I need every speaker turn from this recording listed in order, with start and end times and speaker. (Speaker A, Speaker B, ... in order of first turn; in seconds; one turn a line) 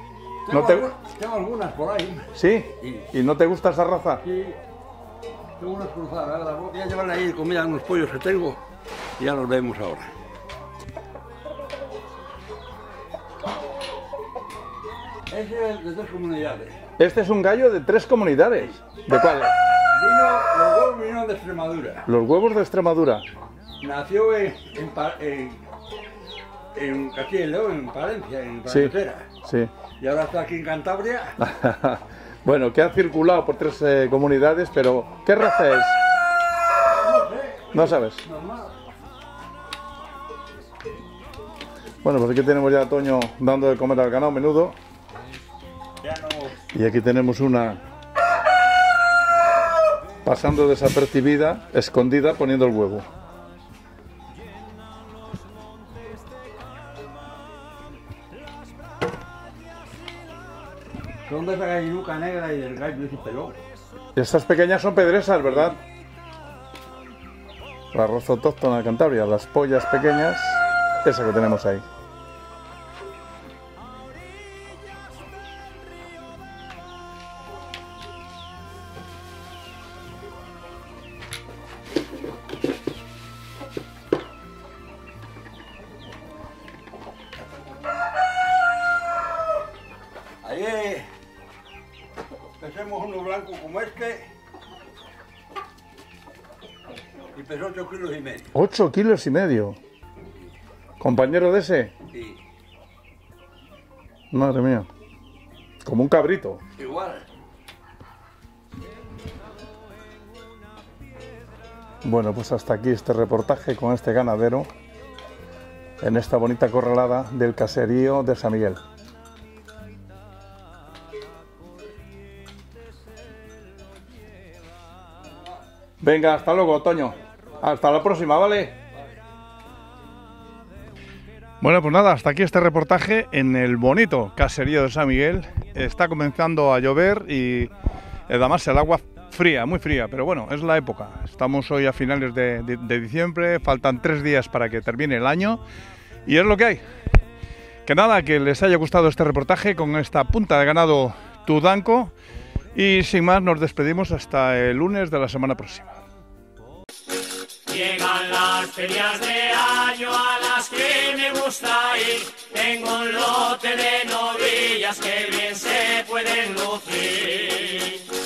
Speaker A: 0.4-3.1
Speaker B: 0.5-0.8
Speaker B: 2.3-4.2
Speaker A: 4.2-4.6
Speaker A: 5.6-8.6
Speaker A: 9.2-10.1
Speaker A: 15.3-16.9
Speaker B: 17.0-19.5
Speaker A: 19.9-22.1
Speaker B: 22.1-23.2
Speaker A: 23.8-25.7
Speaker A: 26.7-29.3
Speaker B: 28.7-29.7
Speaker A: 30.0-31.4
Speaker B: 31.4-36.0
Speaker A: 36.9-38.8
Speaker B: 37.7-38.2
Speaker B: 42.0-44.8
Speaker A: 46.0-46.6
Speaker B: 46.7-47.8
Speaker B: 50.2-53.1
Speaker A: 61.2-63.6
Speaker B: 64.1-65.8
Speaker B: 67.9-71.8
Speaker A: 90.4-91.1
Speaker A: 92.6-94.3
Speaker A: 97.3-98.5
Speaker B: 98.5-99.8
Speaker B: 101.0-101.9
Speaker A: 102.1-102.4
Speaker B: 104.3-104.9
Speaker B: 105.8-106.6
Speaker A: 106.8-107.3
Speaker B: 112.0-114.7
Speaker B: 116.0-118.8
Speaker B: 126.0-128.8
Speaker B: 131.6-137.7
Speaker B: 138.3-145.6
Speaker B: 146.2-146.8
Speaker B: 147.8-152.1
Speaker B: 152.7-156.0
Speaker C: 157.7-168.1